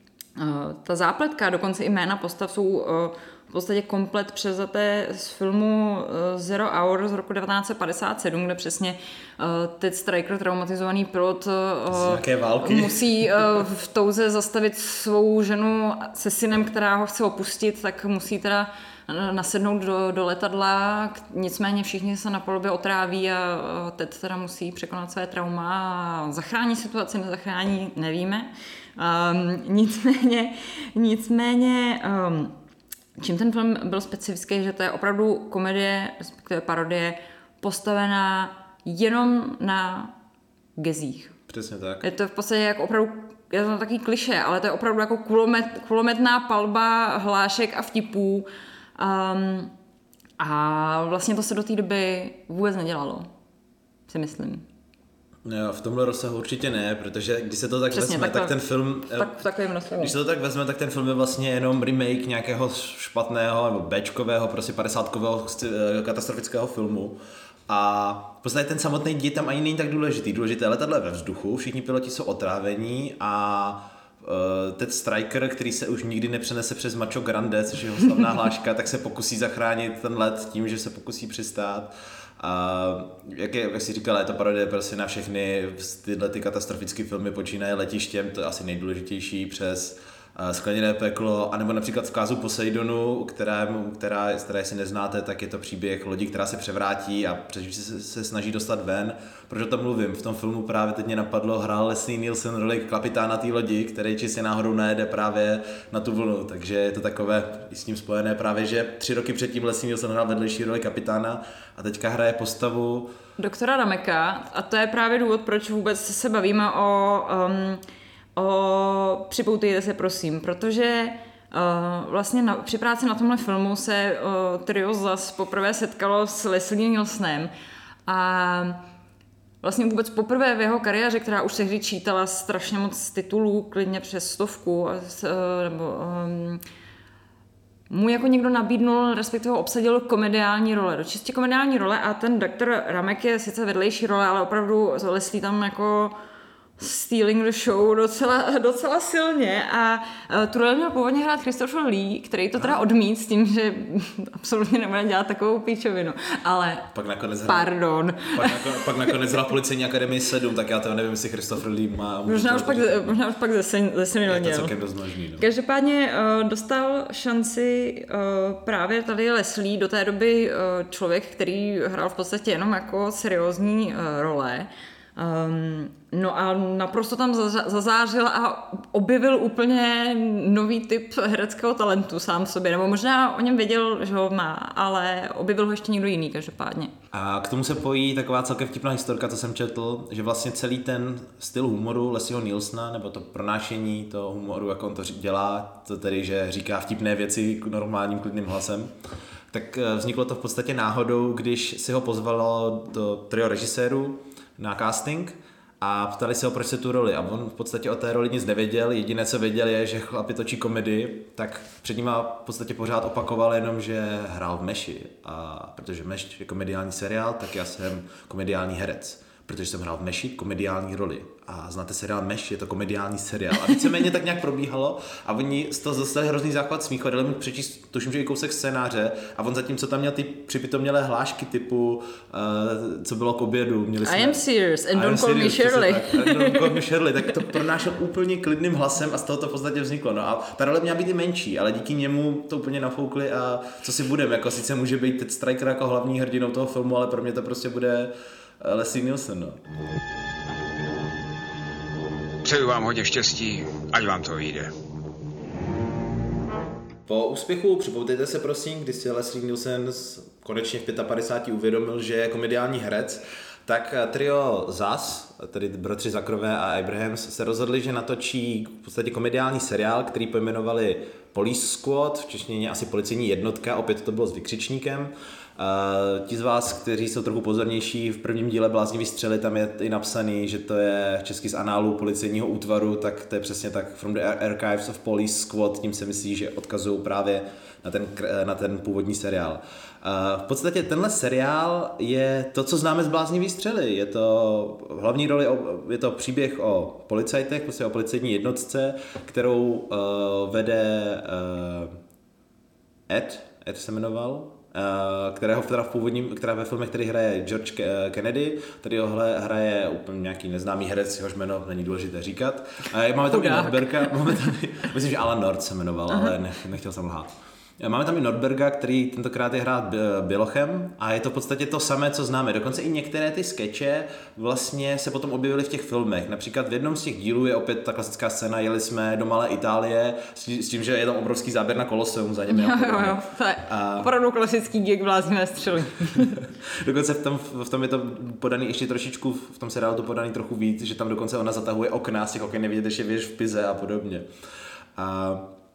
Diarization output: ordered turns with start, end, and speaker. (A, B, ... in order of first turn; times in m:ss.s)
0:00.4-0:32.5 A
0:11.9-0:13.6 B
0:33.2-0:40.1 A
0:40.8-0:41.3 A
0:41.5-0:42.0 B
0:42.0-0:49.7 A
0:50.4-0:53.3 A
0:54.1-0:54.6 A
0:55.4-0:59.4 B
0:57.9-0:58.6 A
0:59.1-1:00.1 A
1:00.0-1:07.2 B
1:07.7-1:53.1 B
1:53.4-1:57.8 A
1:58.4-2:07.5 A
2:08.1-2:08.8 A
2:09.6-2:16.6 A
2:17.9-2:26.2 A
2:26.8-2:36.9 A
2:36.9-2:43.2 B
2:37.5-2:39.1 A
2:42.2-2:44.7 A
2:44.2-2:45.4 B
2:45.4-3:06.9 A
3:07.1-3:18.9 B
3:19.5-4:09.6 B
3:54.0-3:56.8 A
4:12.5-4:14.6 C
4:17.0-5:02.0 B
5:03.1-5:17.3 B
5:13.3-5:14.3 A
5:17.8-5:34.1 B
5:32.5-5:36.4 A
5:36.8-5:44.3 B
5:45.0-5:45.5 B